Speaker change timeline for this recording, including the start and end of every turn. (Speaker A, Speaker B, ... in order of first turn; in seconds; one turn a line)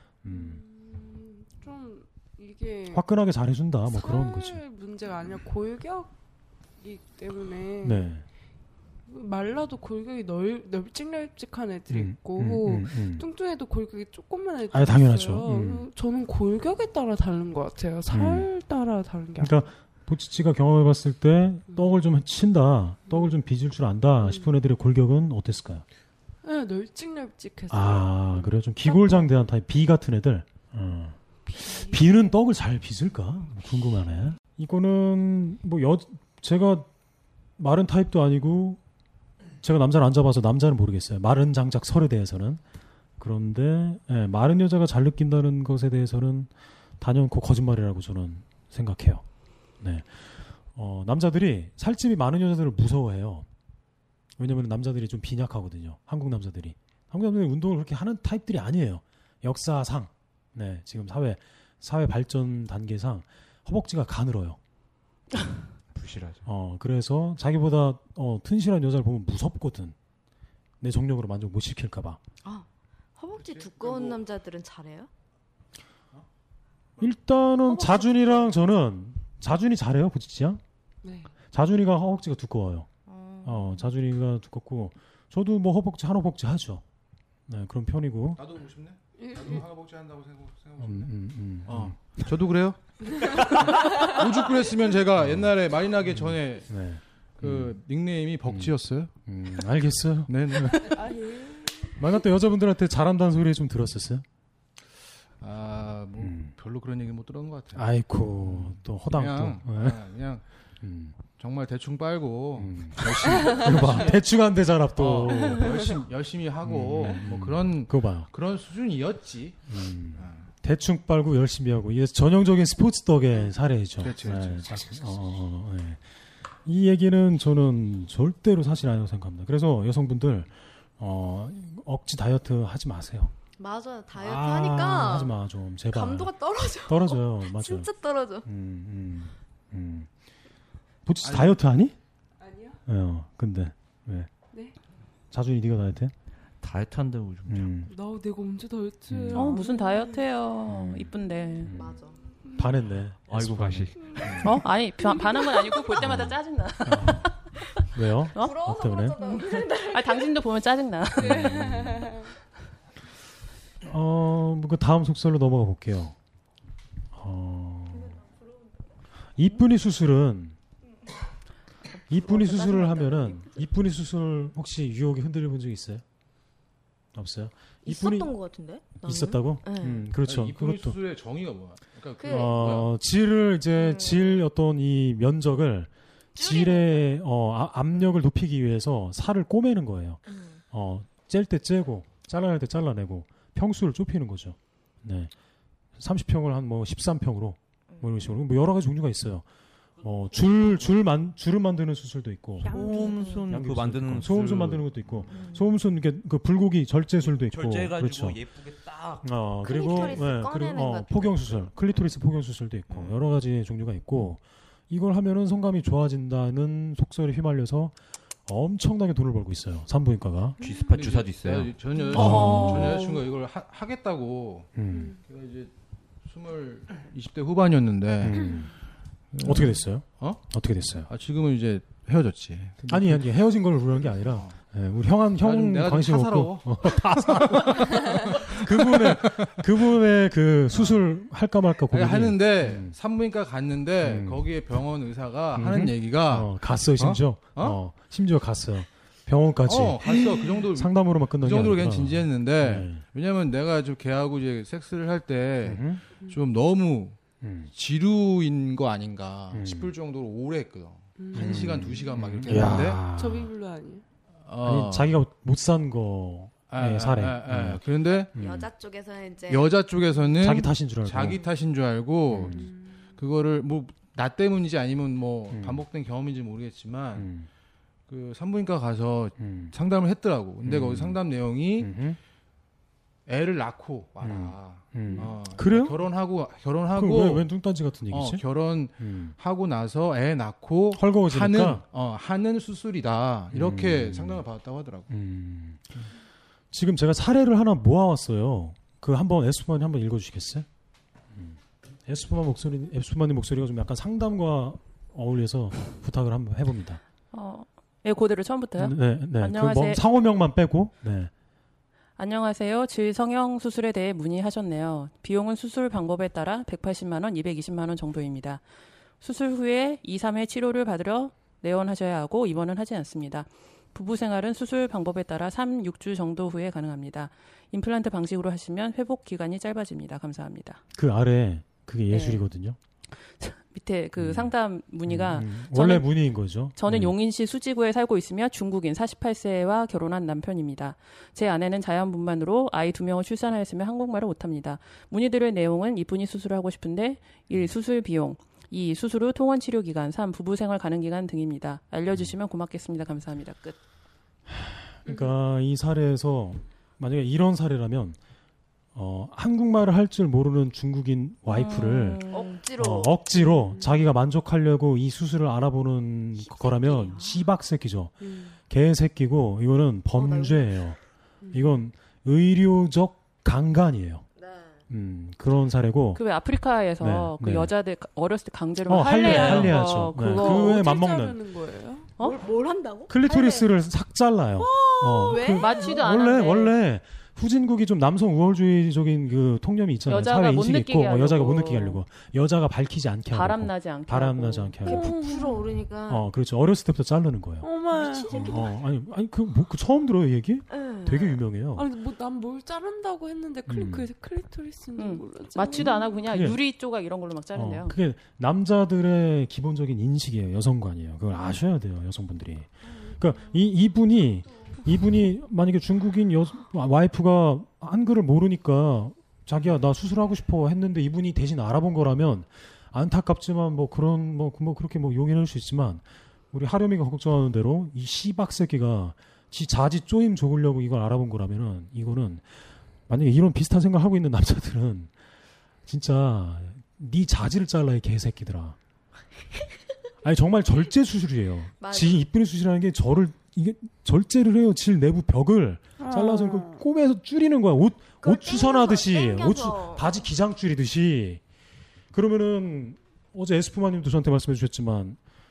Speaker A: 0.2-0.6
Speaker B: 0.3-3.1
Speaker A: 2.9-4.6
Speaker B: 3.9-6.2
Speaker B: 6.8-8.1
Speaker A: 7.8-8.2
Speaker B: 9.1-19.6
Speaker A: 11.9-13.2
Speaker A: 14.7-15.9
Speaker A: 18.1-18.5
Speaker A: 19.4-25.8
Speaker B: 23.1-23.3
Speaker B: 24.2-24.6
Speaker B: 26.4-29.3
Speaker A: 27.7-36.9
Speaker B: 31.5-32.0
Speaker A: 37.6-38.8
Speaker A: 39.6-42.6
Speaker A: 43.2-49.2
Speaker A: 49.8-53.5
Speaker A: 54.4-64.6
Speaker C: 65.9-66.4
Speaker A: 66.5-70.0
Speaker A: 70.8-72.2
Speaker D: 72.4-75.1
Speaker E: 73.3-74.2
Speaker A: 77.0-80.6
Speaker B: 77.7-78.5
Speaker B: 81.0-81.3
Speaker A: 81.5-82.9
Speaker D: 83.0-83.9
Speaker A: 83.4-86.8
Speaker A: 87.5-88.4
Speaker E: 88.4-91.1
Speaker B: 89.2-89.6
Speaker A: 90.8-92.0
Speaker E: 91.7-92.9
Speaker E: 93.7-96.7
Speaker B: 93.8-94.2
Speaker A: 95.2-95.5
Speaker A: 96.1-97.8
Speaker E: 97.4-99.1
Speaker A: 98.5-98.7
Speaker A: 99.2-100.9
Speaker E: 100.3-100.8
Speaker B: 100.7-102.1
Speaker A: 101.9-104.2
Speaker E: 105.4-107.8
Speaker A: 106.2-106.5
Speaker A: 107.7-110.0
Speaker E: 108.4-110.4
Speaker A: 110.8-111.2
Speaker E: 111.3-114.3
Speaker A: 112.6-116.0
Speaker E: 115.0-120.5
Speaker A: 116.6-118.3
Speaker A: 119.7-126.0
Speaker E: 124.0-124.8
Speaker A: 126.6-133.3
Speaker D: 133.6-135.3
Speaker A: 134.1-137.9
Speaker D: 135.9-138.5
Speaker A: 138.4-140.1
Speaker A: 141.1-141.9
Speaker E: 141.2-141.6
Speaker B: 142.4-142.8
Speaker A: 142.9-144.3
Speaker B: 144.5-144.8
Speaker A: 145.3-146.1
Speaker C: 146.6-147.7
Speaker A: 147.5-147.9
Speaker B: 147.8-150.3
Speaker A: 149.1-149.5
Speaker F: 149.3-151.7
Speaker A: 150.7-151.1
Speaker B: 151.2-152.8
Speaker A: 151.6-151.9
Speaker D: 151.7-152.2
Speaker A: 152.6-154.6
Speaker C: 153.3-154.3
Speaker B: 153.9-156.0
Speaker F: 154.4-157.5
Speaker A: 156.0-157.3
Speaker A: 157.9-159.2
Speaker F: 158.3-158.6
Speaker D: 158.3-160.3
Speaker F: 159.4-161.6
Speaker A: 161.2-162.1
Speaker B: 161.2-162.3
Speaker A: 163.8-166.2
Speaker A: 167.1-168.2
Speaker D: 168.0-168.5
Speaker A: 169.3-170.6
Speaker D: 171.9-173.6
Speaker A: 172.1-176.0
Speaker A: 177.1-178.3
Speaker D: 177.8-180.1
Speaker A: 178.9-181.0
Speaker E: 180.2-182.9
Speaker D: 182.2-182.6
Speaker A: 182.2-195.3
Speaker D: 183.8-184.4
Speaker D: 186.3-187.1
Speaker D: 190.3-190.6
Speaker A: 196.0-199.4
Speaker D: 197.9-198.2
Speaker A: 200.0-208.4
Speaker C: 200.2-200.9
Speaker C: 202.6-205.1
Speaker B: 202.7-203.5
Speaker D: 202.9-203.4
Speaker D: 205.3-205.7
Speaker C: 207.2-210.2
Speaker A: 209.2-220.6
Speaker D: 209.6-211.7
Speaker C: 220.6-221.8
Speaker B: 220.7-221.0
Speaker E: 220.9-224.7
Speaker B: 222.0-222.6
Speaker A: 222.1-222.9
Speaker F: 222.2-223.0
Speaker A: 224.7-225.1
Speaker B: 224.9-225.2
Speaker E: 225.2-225.7
Speaker E: 226.2-228.5
Speaker A: 228.2-228.7
Speaker B: 228.4-228.7
Speaker E: 229.3-230.4
Speaker A: 229.4-231.1
Speaker E: 231.1-233.3
Speaker A: 232.9-242.9
Speaker E: 234.0-234.6
Speaker E: 235.4-237.7
Speaker E: 238.3-239.6
Speaker E: 240.7-241.1
Speaker E: 241.9-247.8
Speaker A: 244.0-244.4
Speaker A: 245.5-253.0
Speaker E: 249.6-257.2
Speaker A: 255.6-256.0
Speaker A: 257.4-257.7
Speaker E: 257.7-263.1
Speaker A: 259.5-259.9
Speaker B: 261.1-264.0
Speaker A: 261.3-263.5
Speaker E: 264.4-265.2
Speaker A: 264.6-267.8
Speaker E: 266.7-268.3
Speaker D: 268.3-269.7
Speaker A: 268.3-268.7
Speaker E: 269.5-277.3
Speaker A: 270.4-271.4
Speaker A: 272.3-272.6
Speaker B: 272.5-273.1
Speaker A: 275.5-275.8
Speaker A: 277.1-277.5
Speaker E: 278.1-281.9
Speaker A: 279.4-279.7
Speaker A: 280.6-281.2
Speaker A: 281.8-282.2
Speaker E: 283.3-287.5
Speaker A: 284.2-286.1
Speaker A: 286.9-288.4
Speaker E: 288.1-295.1
Speaker A: 289.0-289.4
Speaker A: 290.9-291.8
Speaker A: 293.5-294.4
Speaker A: 295.1-296.1
Speaker A: 296.7-300.6
Speaker A: 301.3-307.0
Speaker F: 307.3-310.0
Speaker A: 308.8-311.3
Speaker F: 312.2-318.6
Speaker F: 319.2-330.8
Speaker A: 330.9-332.8
Speaker F: 332.1-332.4
Speaker F: 333.4-353.8
Speaker A: 334.2-334.5
Speaker A: 335.1-337.1
Speaker A: 354.5-358.2
Speaker A: 358.9-362.2
Speaker F: 361.5-362.6
Speaker D: 362.3-363.2
Speaker A: 362.8-371.0
Speaker B: 363.3-364.1
Speaker D: 366.4-367.5
Speaker B: 368.2-368.6
Speaker D: 370.1-370.8
Speaker B: 371.4-371.8
Speaker A: 371.5-374.2
Speaker D: 374.4-374.8
Speaker A: 374.9-376.2
Speaker F: 376.1-380.8
Speaker A: 377.0-377.7
Speaker A: 378.9-381.4
Speaker C: 379.2-379.7
Speaker B: 380.2-382.1
Speaker D: 382.2-383.7
Speaker A: 383.1-395.1
Speaker D: 384.6-385.8
Speaker F: 385.4-386.7
Speaker F: 390.1-392.0
Speaker F: 393.3-394.9
Speaker B: 394.8-395.7
Speaker D: 394.9-396.3
Speaker A: 396.1-397.7
Speaker B: 397.6-398.6
Speaker D: 397.9-398.8
Speaker A: 398.4-401.9
Speaker D: 400.7-401.4
Speaker B: 401.7-406.2
Speaker A: 403.7-404.1
Speaker F: 404.9-407.9
Speaker A: 405.8-406.6
Speaker A: 407.5-432.4
Speaker A: 433.1-435.1
Speaker A: 435.9-438.8
Speaker A: 440.2-451.4
Speaker D: 441.8-442.2
Speaker B: 446.0-446.8
Speaker D: 448.2-450.2
Speaker A: 452.1-455.2